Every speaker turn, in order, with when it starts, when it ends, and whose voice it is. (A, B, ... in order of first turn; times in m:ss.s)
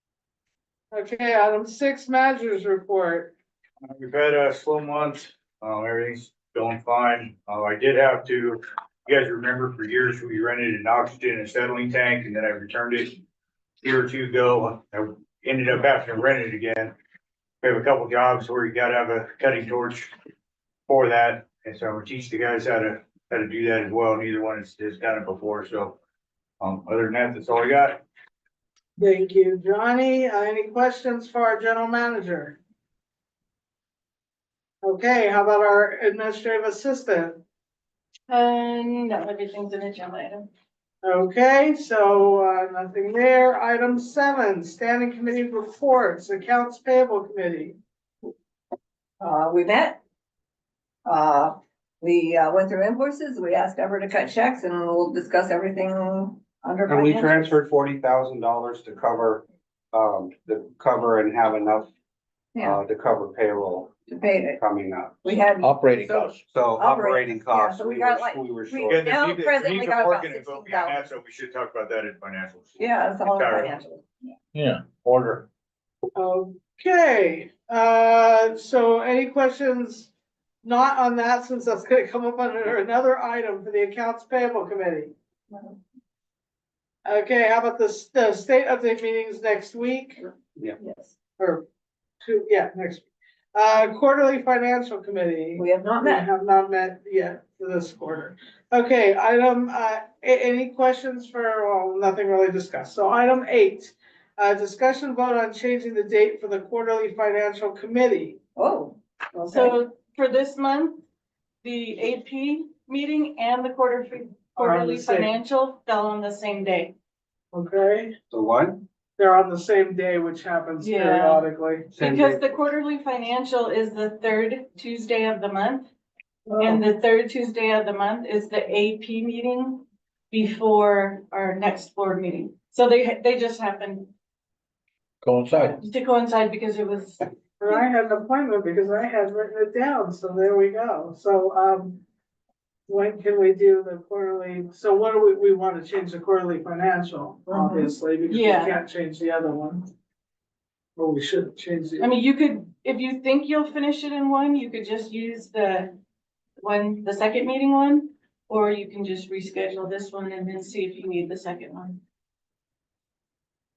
0:00.9-0:03.3 A
0:03.9-0:13.2 B
0:13.8-0:16.9 B
0:17.6-0:20.1 B
0:20.9-0:26.0 B
0:26.6-0:28.0 B
0:29.0-0:32.6 A
0:34.8-0:37.4 A
0:38.3-0:40.5 C
0:41.0-0:47.8 A
0:49.2-0:50.0 D
0:51.1-0:57.6 D
0:56.9-1:01.9 E
1:02.6-1:02.8 D
1:02.6-1:04.0 E
1:04.1-1:04.6 D
1:04.5-1:05.4 E
1:05.2-1:11.0 D
1:05.6-1:06.4 F
1:06.5-1:09.0 E
1:08.8-1:13.8 B
1:12.8-1:14.0 D
1:14.5-1:15.0 F
1:14.9-1:15.5 B
1:16.2-1:20.1 A
1:20.6-1:25.1 A
1:27.0-1:30.2 A
1:30.8-1:31.1 D
1:31.4-1:31.6 A
1:32.2-1:48.4 A
1:35.6-1:36.3 D
1:48.6-1:49.0 D
1:49.3-1:49.8 A
1:49.5-1:51.0 C
1:51.6-1:57.0 C
1:54.6-1:55.3 A
1:57.5-1:58.1 A
1:58.3-1:58.8 E
1:59.2-2:01.9 A
2:00.8-2:01.5 C
2:01.9-2:02.5 E
2:02.0-2:05.9 C
2:06.5-2:06.8 A
2:06.6-2:14.1 C
2:15.2-2:15.8 F
2:15.8-2:17.8 C
2:17.6-2:22.0 A
2:22.9-2:29.9 A
2:27.5-2:27.9 D
2:28.3-2:28.8 C
2:31.0-2:32.1 A
2:32.0-2:36.0 C
2:36.6-2:42.0 C